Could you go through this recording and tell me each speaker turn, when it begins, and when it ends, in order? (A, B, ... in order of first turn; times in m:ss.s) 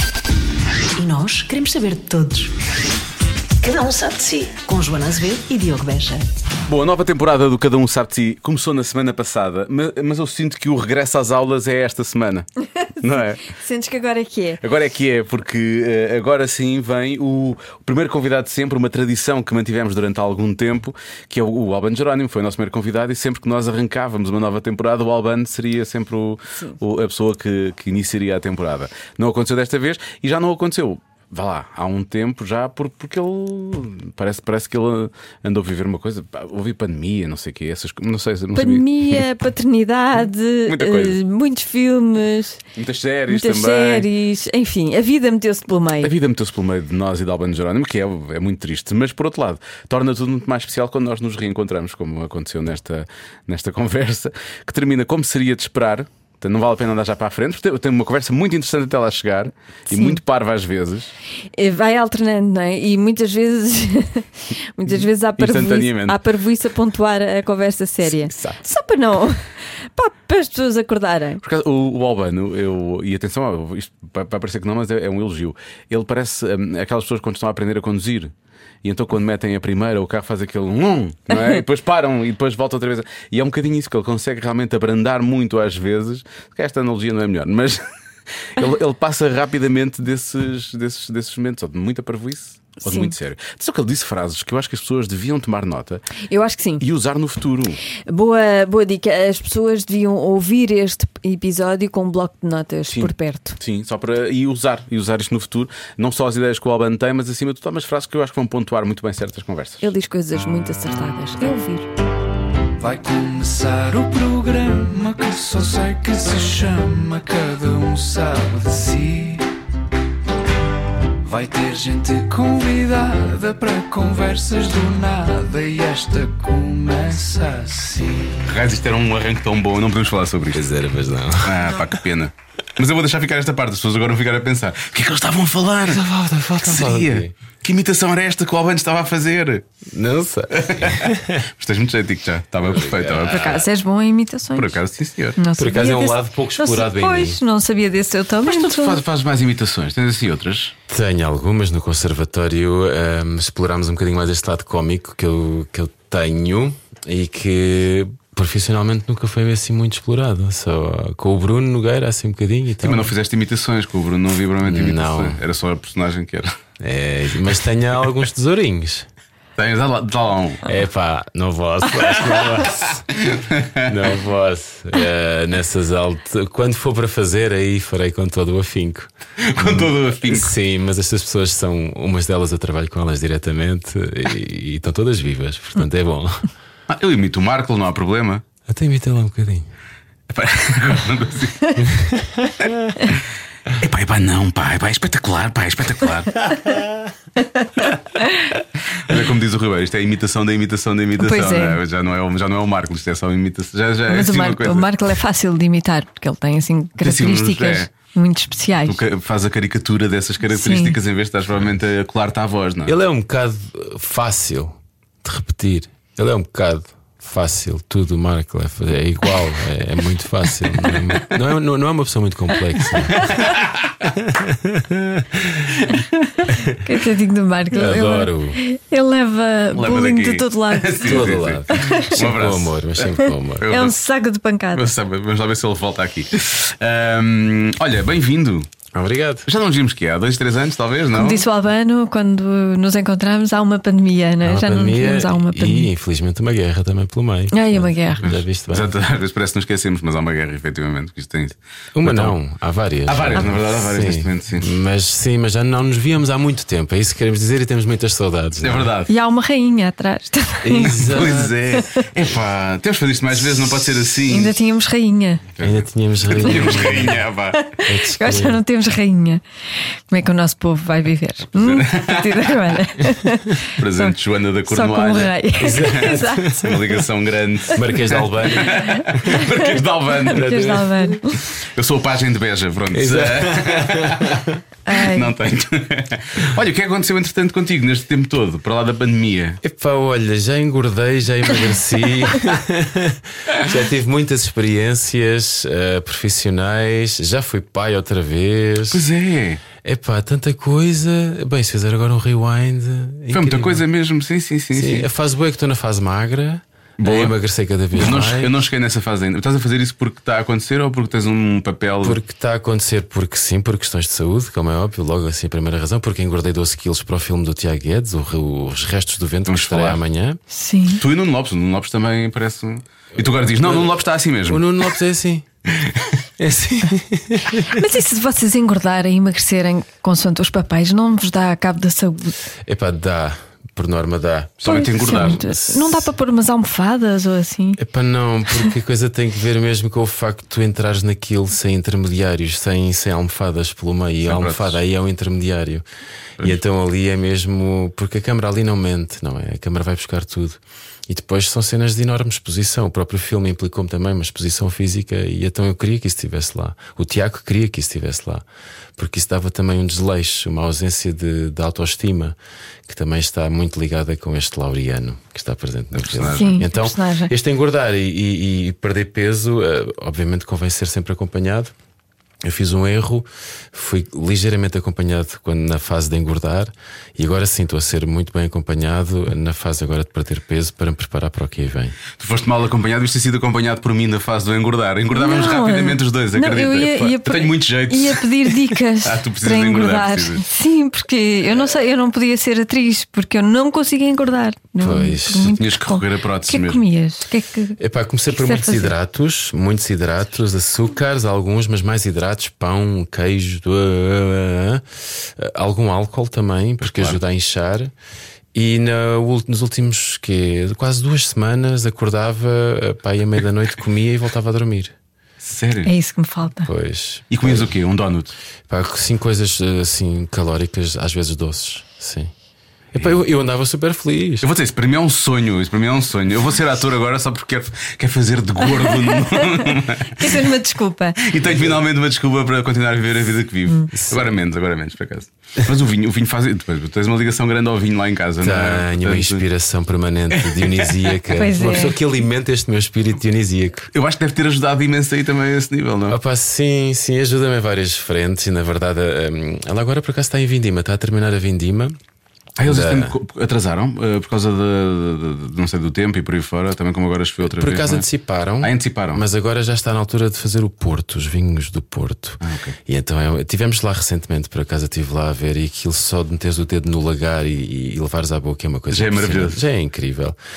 0:00.9-0:02.5 A
0:03.6-0:06.3 A
0:06.6-0:12.5 B
0:13.0-0:13.4 B
0:13.4-0:14.6 C
0:14.6-0:39.4 B
0:38.5-0:42.6 C
0:40.6-0:41.2 B
0:42.8-0:44.1 B
0:43.3-0:46.1 C
0:46.0-1:01.1 B
0:59.9-1:00.2 C
1:01.5-1:11.4 C
1:05.0-1:06.2 B
1:11.4-1:18.3 B
1:18.8-1:27.8 B
1:28.5-1:36.1 B
1:32.8-1:33.1 C
1:36.3-1:36.8 C
1:36.8-1:37.8 B
1:37.9-1:43.6 C
1:42.9-1:49.9 B
1:49.8-1:51.9 C
1:52.8-1:59.5 D
2:01.2-2:08.4 D
2:08.4-2:10.7 B
2:10.5-2:11.7 E
2:11.4-2:16.0 B
2:15.8-2:17.3 E
2:16.6-2:19.7 B
2:19.9-2:21.4 E
2:20.5-2:23.6 B
2:22.7-2:23.6 E
2:23.3-2:24.8 C
2:24.5-2:25.4 B
2:25.4-2:29.0 C
2:25.6-2:27.4 E
2:28.4-2:30.7 B
2:30.9-2:43.1 E
2:42.8-2:46.6 B
2:44.6-2:45.4 E
2:46.8-2:49.1 E
2:49.6-2:50.6 B
2:50.6-2:53.1 E
2:53.2-2:53.9 B
2:53.8-3:06.5 E
2:59.4-3:00.5 B
3:06.9-3:08.4 B
3:08.7-3:09.7 E
3:10.3-3:12.0 B
3:12.6-3:13.2 B
3:13.7-3:16.6 B
3:17.8-3:18.4 C
3:19.0-3:24.9 B
3:21.2-3:21.8 C
3:24.1-3:29.0 C
3:27.0-3:27.9 B
3:28.8-3:33.0 B
3:30.5-3:31.0 C
3:32.8-3:43.5 E
3:40.8-3:41.2 B
3:43.1-3:43.9 B
3:44.0-3:45.7 E
3:46.2-3:52.2 C
3:46.5-3:46.8 E
3:47.7-3:48.6 E
3:49.7-3:54.0 B
3:51.0-3:53.7 E
3:53.7-3:54.9 C
3:54.7-3:58.7 B
3:58.9-3:59.5 E
3:59.4-4:01.4 B
4:01.1-4:05.9 C
4:04.4-4:08.9 E
4:07.5-4:08.2 C
4:08.2-4:12.4 B
4:12.0-4:18.9 E
4:13.0-4:14.7 B
4:18.6-4:19.1 B
4:19.1-4:22.1 C
4:20.6-4:21.5 E
4:20.9-4:24.5 B
4:24.3-4:25.4 C
4:25.6-4:27.6 B
4:25.6-4:27.2 E
4:26.5-4:26.9 C
4:27.5-4:29.4 C
4:27.8-4:28.6 E
4:30.1-4:34.1 C
4:31.5-4:32.5 B
4:33.8-4:40.7 B
4:34.6-4:37.0 C
4:35.6-4:36.7 E
4:37.7-4:39.4 E
4:38.7-4:39.7 C
4:40.2-4:41.4 C
4:40.3-4:41.1 E
4:41.6-4:49.6 B
4:42.9-4:44.6 E
4:44.9-4:45.3 C
4:49.6-4:59.0 E
4:58.9-4:59.6 B
4:59.8-5:03.8 E
5:03.3-5:05.1 B
5:04.7-5:08.6 E
5:07.0-5:07.3 B
5:07.9-5:12.2 B
5:12.0-5:20.4 E
5:19.4-5:20.0 B
5:20.5-5:21.0 C
5:21.0-5:24.8 B
5:23.2-5:25.5 E
5:25.8-5:26.0 B
5:26.4-5:27.7 E
5:27.7-5:32.4 C
5:32.6-5:36.1 E
5:34.6-5:35.4 B
5:34.6-5:37.8 C
5:37.8-5:45.8 E
5:44.2-5:44.8 B
5:46.4-5:58.4 E
5:59.0-6:02.4 E
6:02.9-6:11.7 E
6:05.9-6:06.6 B
6:06.3-6:07.3 C
6:12.4-6:22.0 E
6:22.2-6:30.4 B
6:25.1-6:37.8 C
6:34.8-6:35.5 E
6:35.5-6:36.8 B
6:37.8-6:47.9 E
6:38.3-6:38.9 C
6:46.8-6:47.2 B
6:48.5-6:54.9 E
6:55.4-6:55.9 B
6:55.8-6:56.7 C
6:56.6-6:57.7 E
6:57.3-6:58.3 B
6:58.7-7:02.3 E
7:02.9-7:04.5 E
7:04.4-7:10.4 B
7:08.6-7:11.2 C
7:11.2-7:19.4 B
7:13.9-7:14.2 E
7:18.4-7:23.9 E
7:20.3-7:21.4 B
7:21.4-7:22.0 C
7:23.9-7:26.2 B
7:26.1-7:32.0 E
7:32.6-7:38.0 B
7:32.6-7:33.1 E
7:37.4-7:50.4 E
7:38.6-7:39.2 B
7:42.4-7:42.8 B
7:48.9-7:49.6 B